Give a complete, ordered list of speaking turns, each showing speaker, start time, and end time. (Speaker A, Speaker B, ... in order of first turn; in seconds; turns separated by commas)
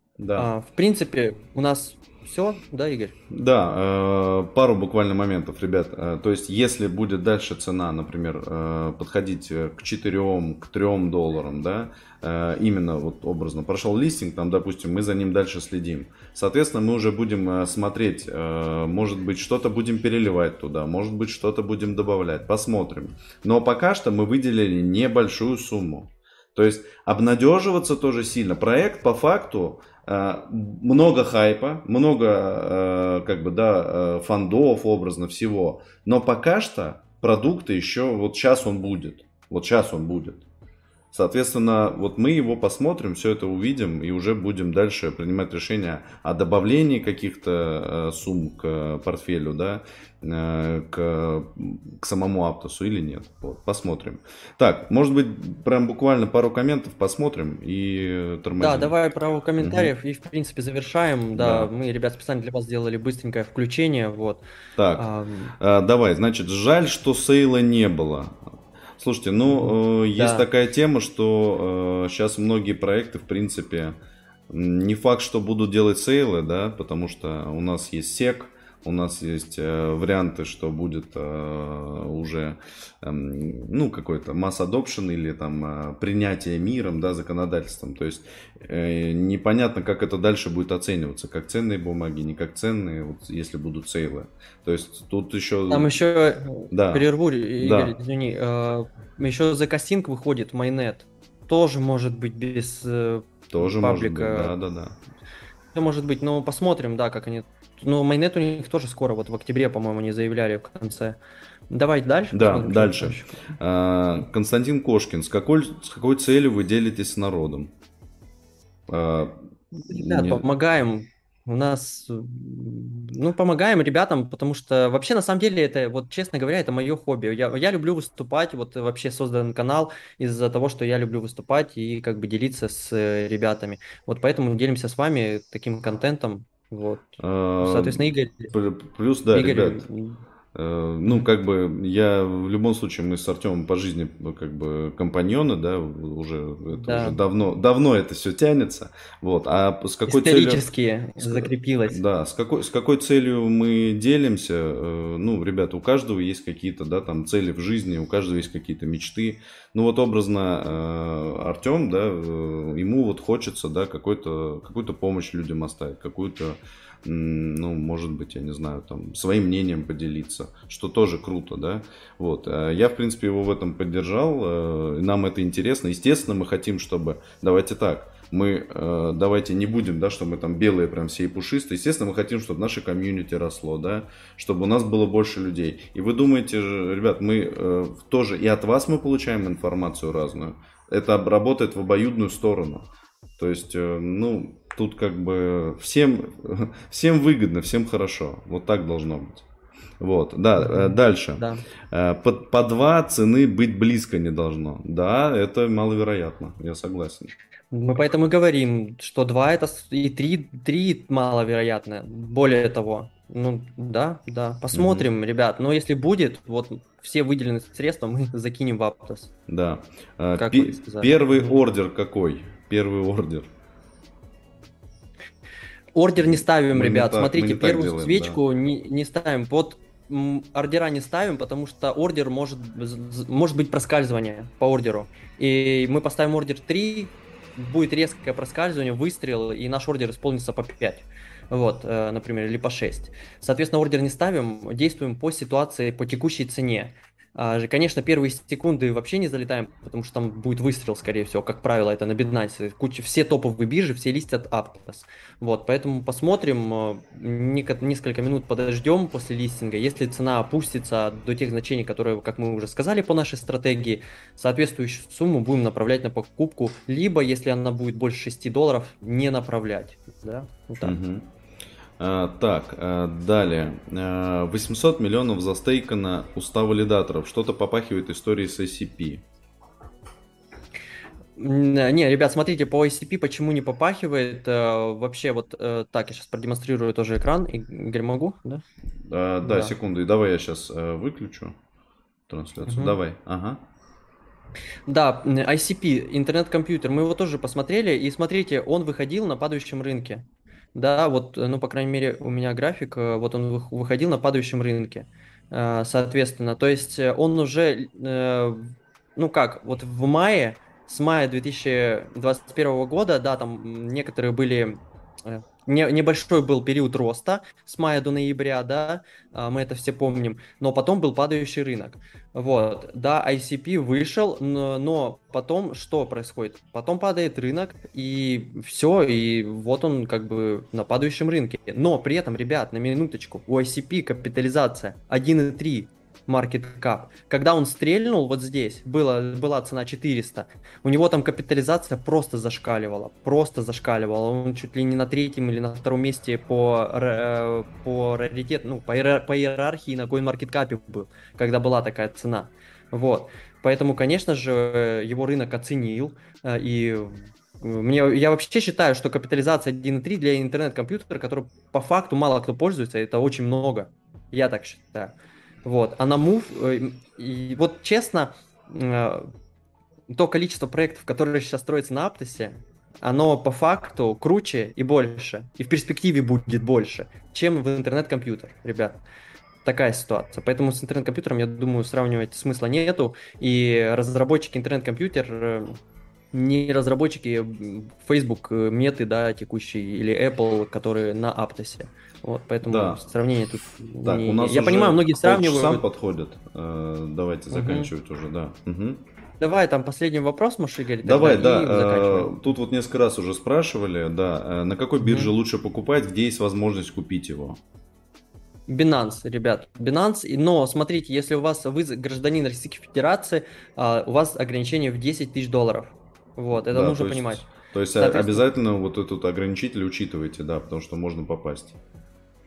Speaker A: 0.2-0.5, Speaker B: 0.4-3.1, Speaker A: 3.3-40.5, Speaker A: 41.1-58.9, Speaker B: 58.6-64.4, Speaker A: 59.6-59.9, Speaker A: 61.4-61.7, Speaker A: 64.8-65.1, Speaker B: 65.0-65.5, Speaker A: 65.6-68.4, Speaker A: 69.0-74.0, Speaker B: 69.5-70.5, Speaker A: 74.5-95.9, Speaker B: 95.7-104.5, Speaker A: 96.7-97.1, Speaker A: 97.6-98.0, Speaker A: 103.5-105.0, Speaker B: 105.7-111.2, Speaker B: 111.7-113.5, Speaker A: 112.3-117.7, Speaker A: 118.9-120.5, Speaker B: 119.8-138.5, Speaker A: 137.2-139.8, Speaker B: 139.3-140.2, Speaker A: 140.5-150.6, Speaker B: 146.7-147.2, Speaker B: 150.1-152.0, Speaker A: 151.2-199.5, Speaker A: 200.0-207.3, Speaker B: 200.6-201.6, Speaker B: 207.7-219.3, Speaker A: 214.7-215.1, Speaker A: 219.5-223.5, Speaker B: 220.4-221.6, Speaker B: 225.9-271.0, Speaker A: 226.2-228.4, Speaker A: 270.8-271.3, Speaker A: 272.0-279.2, Speaker B: 281.4-288.6, Speaker A: 289.1-291.6, Speaker B: 289.4-289.7, Speaker A: 292.3-293.6, Speaker B: 292.6-293.0, Speaker B: 294.9-369.3, Speaker B: 370.1-379.0, Speaker B: 379.6-385.8, Speaker B: 386.3-395.9, Speaker A: 392.6-393.0, Speaker A: 394.0-399.0, Speaker B: 397.5-397.9, Speaker B: 399.4-402.4, Speaker A: 401.0-407.6, Speaker B: 405.0-405.3, Speaker B: 408.7-417.4, Speaker A: 416.5-421.8, Speaker B: 418.0-418.5